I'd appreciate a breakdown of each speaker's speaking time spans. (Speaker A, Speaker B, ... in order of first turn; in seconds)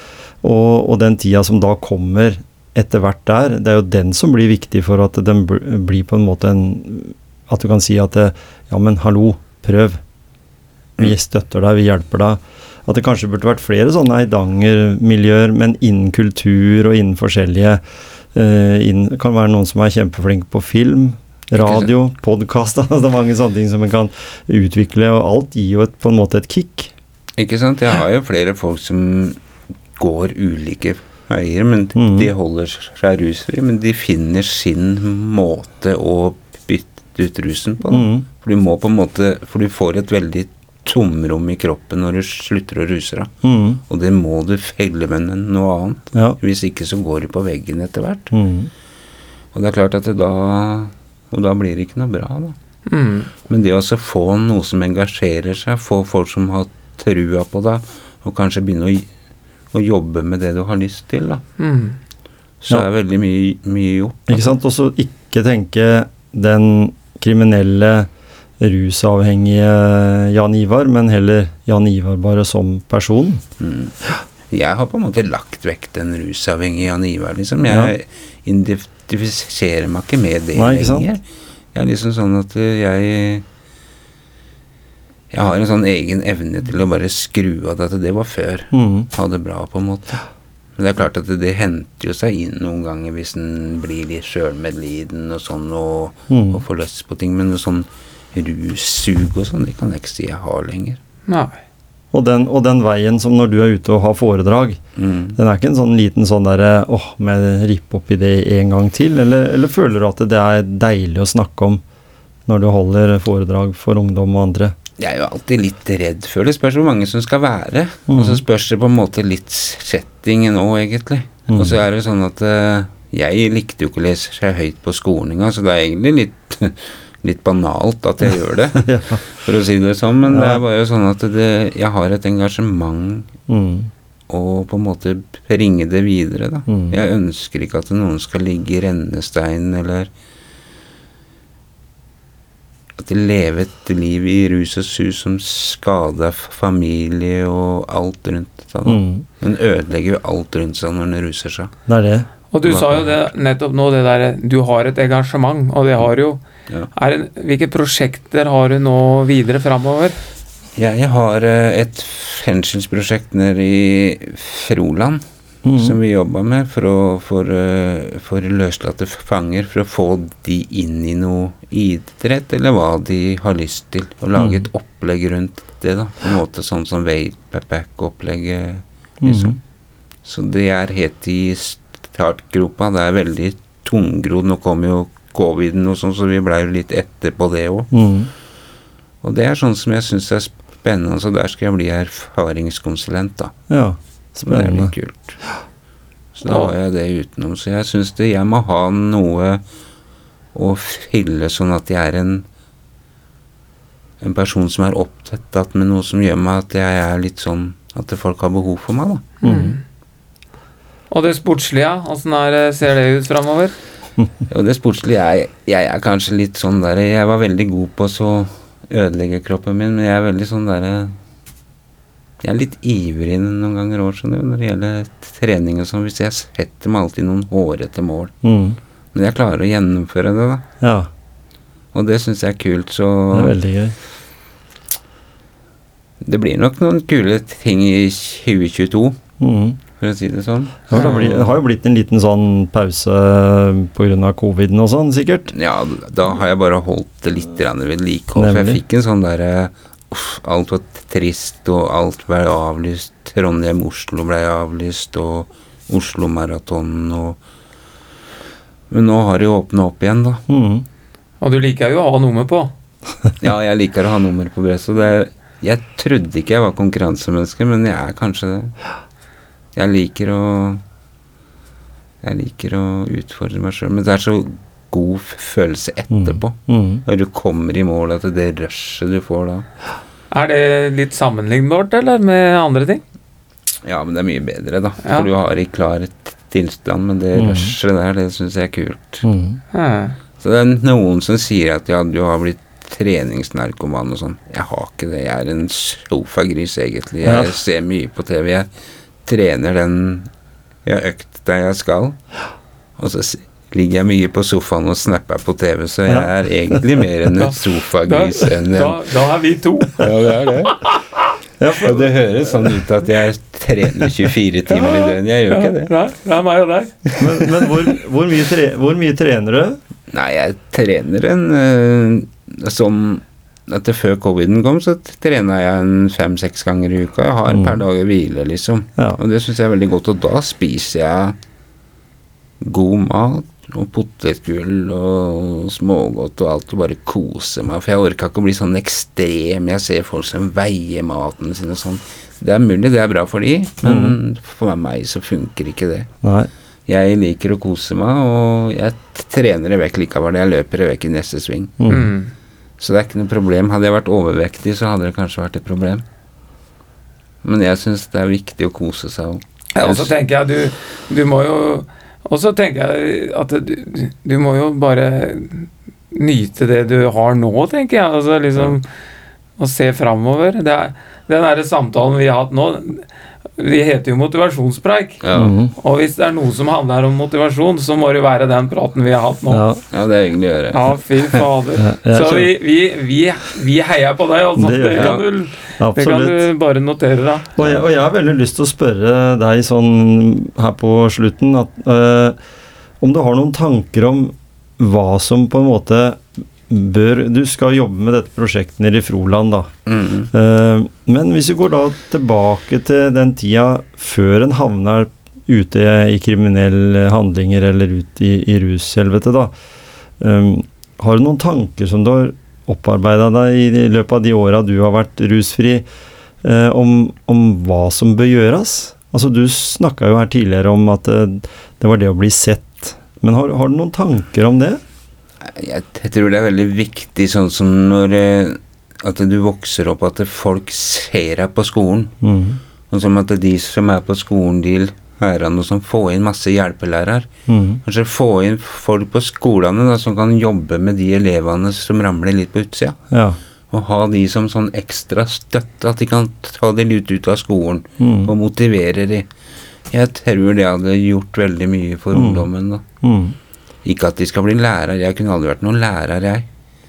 Speaker A: 0.4-10.0, 11.0-17.8, 18.3-26.9, 31.9-32.3, 37.9-38.3, 43.4-43.8, 48.3-48.7, 64.3-68.1, 68.6-73.4, 80.5-81.1, 88.7-89.1, 96.3-96.6, 102.1-104.8, 105.3-111.8, 112.5-114.7, 118.1-118.4, 121.5-121.8, 128.8-129.2, 130.2-130.6, 133.5-133.9, 136.7-137.0, 148.8-149.2, 151.9-152.3, 165.6-166.0, 174.4-174.6, 179.2-179.6, 187.9-188.3, 193.7-194.9, 209.4-209.7, 228.4-228.8, 230.8-231.1, 233.3-233.9, 239.4-239.8, 240.9-245.5, 248.3-248.8, 260.5-260.9, 276.1-277.0, 287.4-287.7, 289.2-289.6, 297.2-297.5, 306.1-306.8, 311.6-312.7, 317.2-319.8, 327.5-327.8, 343.8-344.2, 346.2-346.5, 351.8-352.1, 375.3-375.7, 379.5-379.8, 381.8-382.5, 384.6-385.2, 385.8-386.4, 387.6-392.4, 393.0-399.7, 400.3-409.5, 410.2-415.8, 416.4-424.8, 432.2-432.6, 437.5-437.8, 443.1-443.4, 448.0-448.3, 452.1-452.5, 453.0-453.4
Speaker B: 21.5-21.9, 27.4-29.4, 30.0-43.3, 43.9-48.3, 49.5-52.5, 53.5-59.1, 59.7-61.4, 62.6-64.5, 73.6-73.9, 74.5-81.2, 81.7-83.4, 85.3-90.2, 90.8-101.0, 105.0-105.4, 115.0-133.3, 134.3-140.1, 143.0-151.7, 152.6-153.2, 160.8-179.6, 180.2-187.9, 189.2-193.5, 194.4-195.4, 196.3-199.6, 200.5-202.4, 204.2-209.3, 214.5-221.2, 222.4-228.3, 229.1-230.6, 231.9-233.5, 236.2-239.2, 239.9-241.6, 245.5-257.4, 258.9-260.4, 263.4-268.7, 269.8-270.8, 272.2-279.7, 283.8-289.2, 290.4-298.7, 299.2-300.3, 300.9-302.2, 303.0-309.0, 310.0-310.8, 311.8-315.9, 320.1-331.4, 332.6-346.1, 346.9-351.9, 352.8-356.0, 357.4-360.1, 375.2-375.6, 379.9-381.4, 384.9-385.2, 399.9-400.3, 425.4-432.1, 432.9-437.3, 437.8-443.0, 443.7-449.3, 449.9-452.8, 453.8-456.5
Speaker C: 52.9-53.3, 61.6-62.0, 101.3-101.6, 152.5-156.4, 156.9-160.2, 209.4-209.8, 211.1-213.7, 240.9-241.2, 261.4-262.7, 280.3-283.0, 285.0-285.3, 289.7-290.2, 307.4-311.2, 314.8-317.5, 351.9-352.3, 359.7-368.9, 369.6-375.2, 375.7-379.6, 380.7-387.5